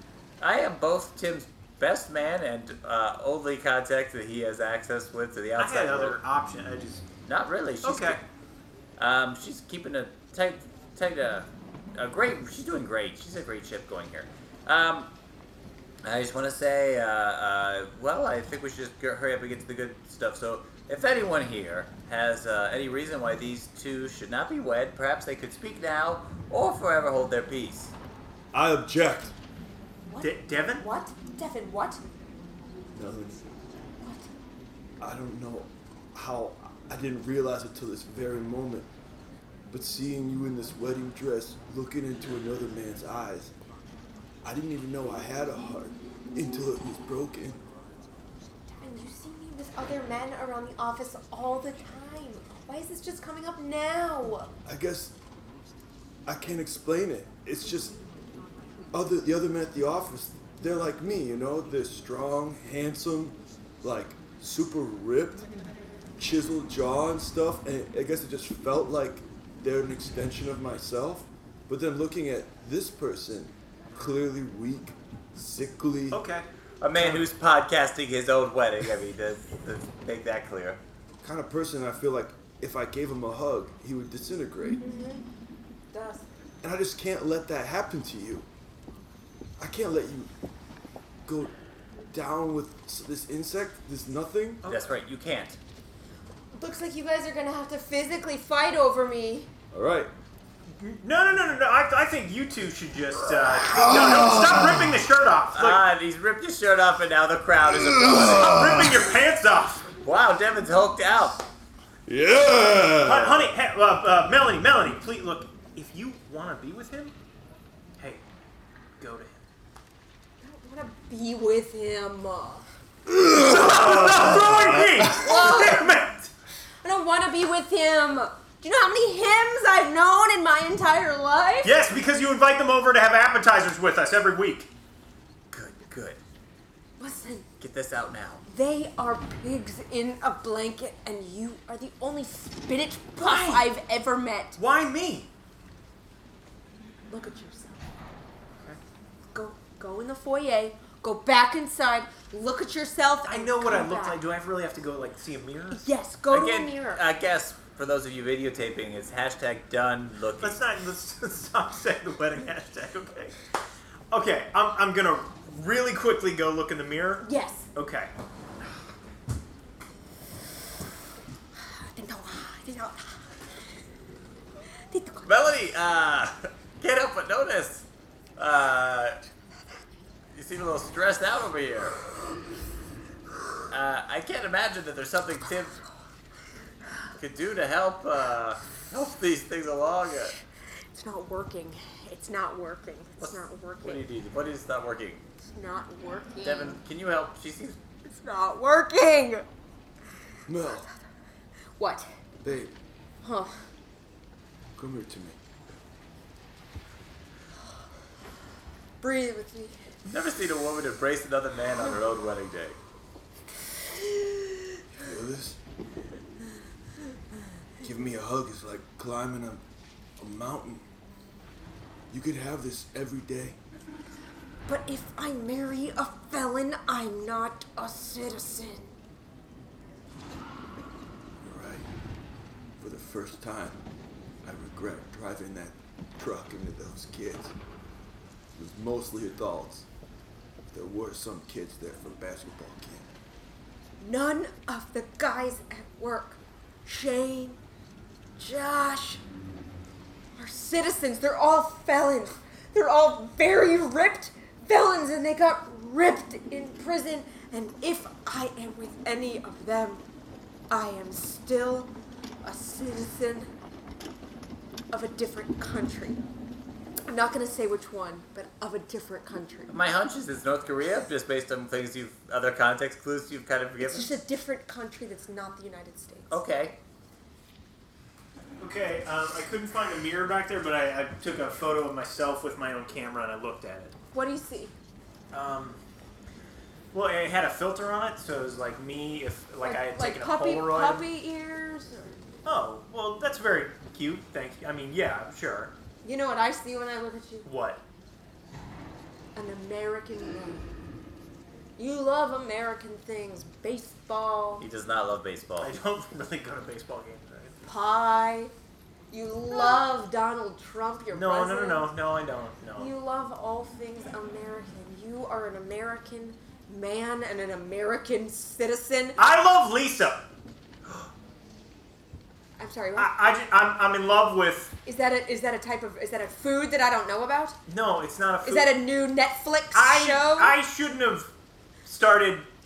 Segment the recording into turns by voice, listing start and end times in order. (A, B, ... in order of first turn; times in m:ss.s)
0:00.4-0:06.2 A
0:05.6-0:07.0 B
0:07.2-0:08.2 A
0:07.8-0:08.2 B
0:09.0-0:15.1 A
0:16.0-0:27.9 A
0:28.5-0:29.3 C
0:30.1-0:32.0 D
0:30.2-0:30.9 B
0:32.9-0:33.5 C
0:34.0-0:34.3 D
0:35.0-0:38.9 C
0:39.7-0:43.5 C
0:44.4-0:47.6 C
0:48.8-0:54.5 D
0:54.6-0:55.1 C
0:56.2-0:58.0 C
0:58.9-1:05.5 C
1:06.2-1:16.2 C
1:16.1-1:17.3 B
1:16.8-1:20.8 A
1:21.2-1:24.8 C
1:24.6-1:25.2 D
1:25.9-1:26.2 D
1:26.6-1:28.5 C
1:29.6-1:30.3 C
1:31.2-1:31.5 C
1:32.1-1:34.6 C
1:34.6-1:34.9 B
1:34.7-1:35.6 A
1:36.5-1:39.5 D
1:39.7-1:40.1 C
1:40.7-1:45.8 B
1:43.7-1:44.9 C
1:45.5-1:48.7 A
1:47.7-1:49.0 C
1:48.4-1:49.9 B
1:50.0-1:51.4 A
1:52.0-1:53.5 C
1:53.0-1:57.1 B
1:58.0-1:58.2 B
1:59.0-1:59.4 B
2:00.4-2:02.7 D
2:03.1-2:05.3 C
2:03.4-2:06.3 B
2:05.1-2:06.0 D
2:06.8-2:11.8 D
2:11.6-2:14.7 B
2:15.5-2:16.2 A
2:17.0-2:17.5 D
2:17.6-2:18.4 A
2:18.5-2:24.6 D
2:23.2-2:23.7 B
2:24.6-2:25.3 B
2:27.1-2:27.8 D
2:29.3-2:34.2 D
2:33.3-2:35.9 B
2:35.7-2:37.0 D
2:36.3-2:40.6 A
2:40.4-2:43.4 B
2:44.1-2:48.1 B
2:47.2-2:47.7 D
2:51.6-2:53.4 D
2:54.9-2:55.3 D
2:55.2-2:57.8 A
2:58.4-2:59.2 A
3:00.3-3:01.9 A
3:03.7-3:05.8 A
3:07.2-3:10.3 A
3:10.9-3:14.1 D
3:13.2-3:15.2 A
3:15.4-3:16.8 D
3:16.4-3:17.8 A
3:18.0-3:19.4 D
3:20.5-3:20.9 C
3:21.8-3:22.1 D
3:22.4-3:22.7 C
3:23.2-3:23.5 D
3:24.8-3:25.4 C
3:29.0-3:29.8 D
3:30.0-3:32.8 A
3:35.0-3:35.6 C
3:37.8-3:39.6 C
3:40.2-3:40.8 C
3:42.1-3:43.6 C
3:44.6-3:48.9 D
3:51.4-3:51.9 C
3:52.8-3:53.8 C
3:54.4-3:57.5 C
3:58.5-3:59.9 C
4:00.7-4:03.1 C
4:04.0-4:07.6 D
4:08.4-4:09.2 D
4:10.4-4:20.0 D
4:20.7-4:21.9 D
4:22.4-4:23.5 D
4:24.9-4:26.2 D
4:27.1-4:29.7 D
4:29.7-4:34.2 A
4:33.8-4:36.4 D
4:36.3-4:36.8 A
4:38.6-4:44.0 B
4:44.1-4:44.7 D
4:45.3-4:45.8 B
4:46.9-4:51.0 B
4:49.6-4:52.2 D
4:52.4-4:55.7 B
4:56.0-4:57.5 D
4:57.4-4:57.8 B
4:59.3-5:00.7 D
5:01.8-5:04.7 D
5:04.6-5:05.7 A
5:05.6-5:07.6 B
5:07.6-5:08.5 D
5:09.1-5:11.9 D
5:11.1-5:12.9 B
5:12.8-5:19.2 D
5:19.2-5:20.2 B
5:22.6-5:23.1 D
5:23.0-5:24.7 B
5:24.8-5:27.6 D
5:27.7-5:28.8 B
5:28.4-5:30.6 D
5:29.7-5:31.3 B
5:31.8-5:32.5 B